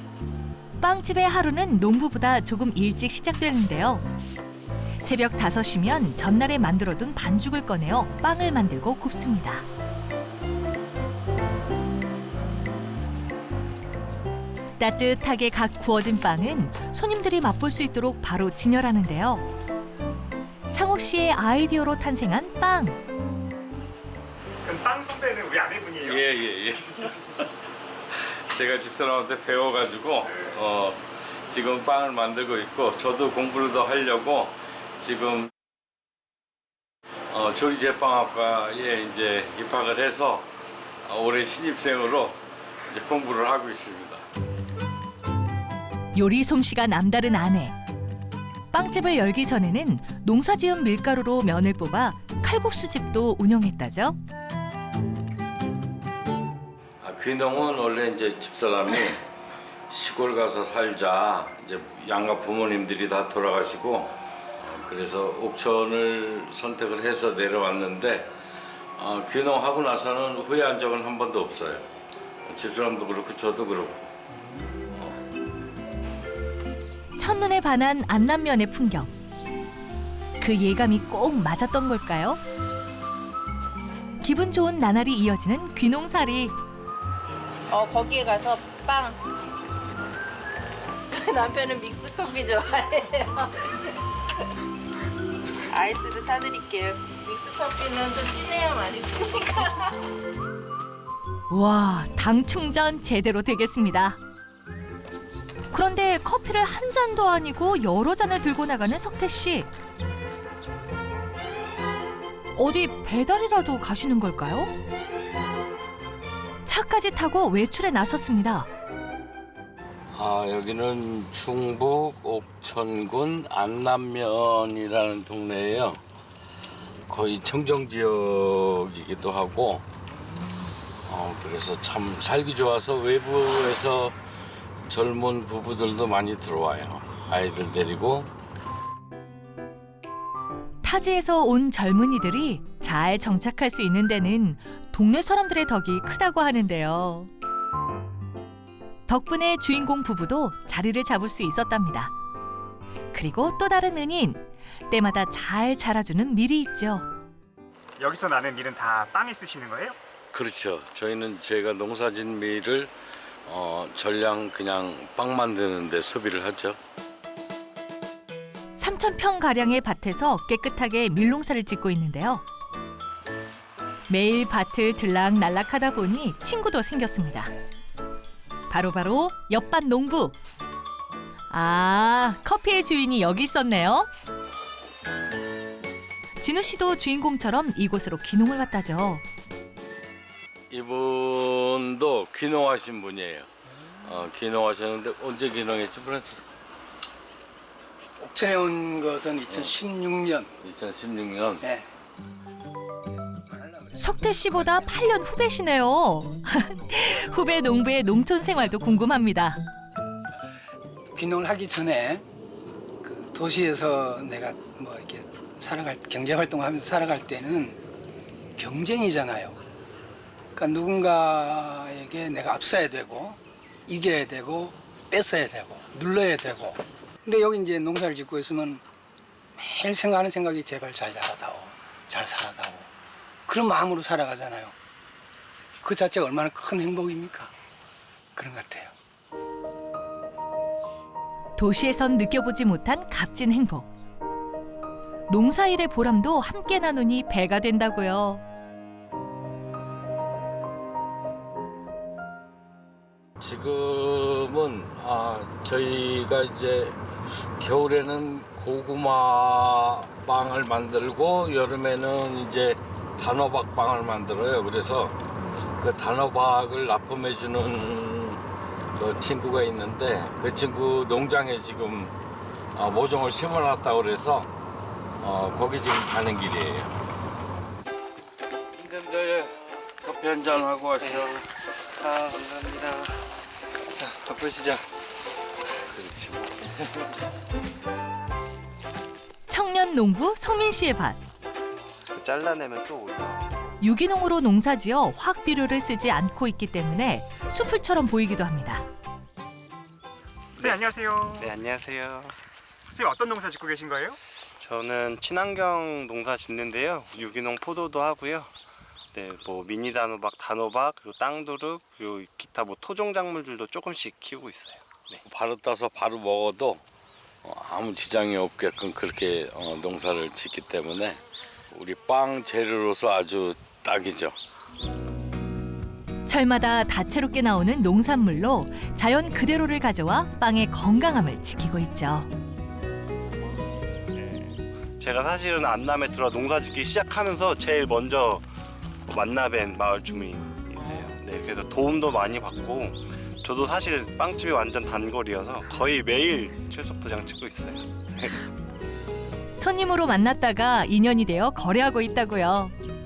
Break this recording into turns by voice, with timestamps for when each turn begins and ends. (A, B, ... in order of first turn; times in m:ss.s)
0:00.8-0:04.0 A
0:05.0-0:09.6 A
0:14.8-0:19.4 A
0:20.7-0:23.0 A
0:24.6-0:26.2 B
0:26.0-0:27.5 C
0:28.1-0:35.5 C
0:37.3-0:40.5 C
0:41.1-0:44.2 C
0:46.2-0:47.7 A
0:48.7-0:54.2 A
0:57.0-0:59.2 C
0:59.9-1:08.3 C
1:09.0-1:11.9 C
1:12.5-1:14.1 C
1:17.2-1:19.1 A
1:20.4-1:22.4 A
1:24.2-1:26.6 A
1:27.7-1:29.2 D
1:31.1-1:34.0 D
1:35.7-1:40.0 D
1:41.5-1:44.2 A
1:45.7-1:49.7 A
1:52.6-1:54.7 A
1:56.6-1:58.7 A
2:00.1-2:06.0 C
2:07.1-2:09.8 C
2:11.1-2:14.2 C
2:14.9-2:18.3 C
2:20.8-2:27.3 A
2:29.1-2:32.1 A
2:33.1-2:37.1 A
2:38.0-2:40.0 B
2:40.3-2:42.9 C
2:43.5-2:46.8 C
2:48.8-2:52.4 A
2:54.1-2:57.5 A
2:58.7-3:00.4 A
3:01.5-3:04.1 A
3:06.4-3:09.2 A
3:10.7-3:13.5 C
3:14.0-3:16.5 C
3:18.2-3:20.5 E
3:19.5-3:19.8 C
3:20.6-3:21.6 C
3:21.6-3:21.9 E
3:23.5-3:24.0 E
3:24.0-3:29.6 A
3:31.1-3:32.2 E
3:33.0-3:37.8 E
3:38.6-3:39.6 E
3:40.6-3:48.8 E
3:49.6-3:52.9 E
3:53.5-3:54.7 E
3:55.8-3:57.5 E
3:58.4-3:58.9 E
4:01.6-4:03.9 A
4:05.3-4:08.4 A
4:13.4-4:25.2 C
4:25.8-4:28.4 C
4:29.0-4:32.1 C
4:32.8-4:34.5 C
4:35.2-4:36.9 C
4:38.8-4:41.4 C
4:42.0-4:43.1 F
4:44.0-4:44.9 F
4:45.9-4:46.7 C
4:49.5-4:51.2 A
4:52.2-4:53.5 F
4:53.8-4:58.8 A
5:00.6-5:01.5 B
5:01.4-5:02.4 F
5:02.9-5:04.2 B
5:04.6-5:08.5 F
5:09.2-5:15.2 F
5:15.3-5:16.8 C
5:17.4-5:21.2 C
5:21.7-5:24.4 C
5:26.3-5:32.3 A
5:35.0-5:38.4 F
5:39.1-5:48.4 F
5:49.6-5:52.7 A